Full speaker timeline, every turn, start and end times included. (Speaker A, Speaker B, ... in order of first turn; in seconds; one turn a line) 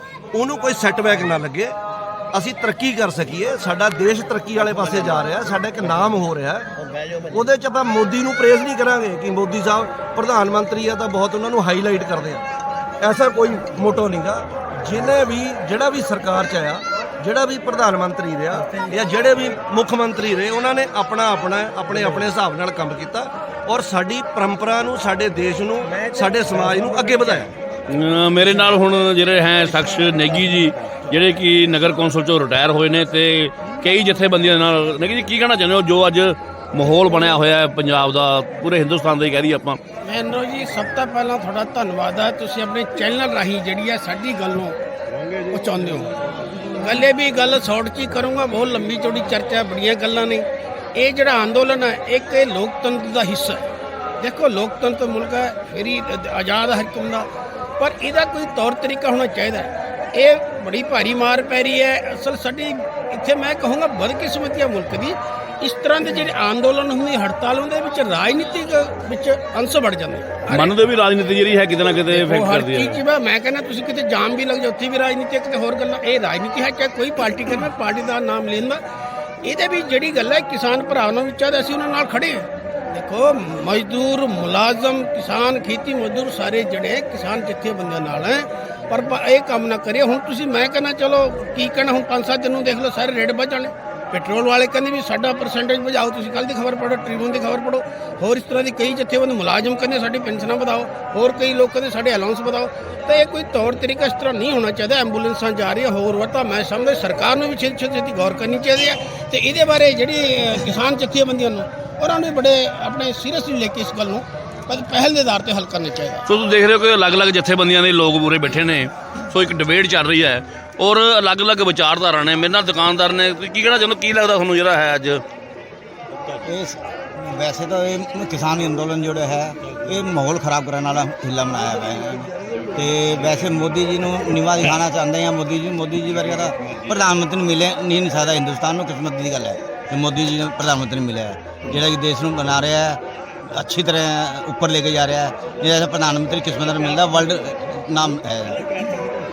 Speaker A: 0.3-1.8
Speaker A: 2.3-6.7
Speaker A: 7.3-12.4
Speaker A: 13.0-27.5
Speaker B: 27.9-39.8
Speaker C: 40.0-44.8
Speaker C: 45.5-46.1
Speaker C: 46.7-50.4
Speaker C: 51.0-53.6
Speaker C: 54.2-57.2
Speaker C: 57.8-70.8
Speaker B: 70.5-73.0
Speaker C: 72.0-78.8
Speaker C: 79.4-116.2
Speaker B: 116.3-125.2
Speaker D: 126.4-148.6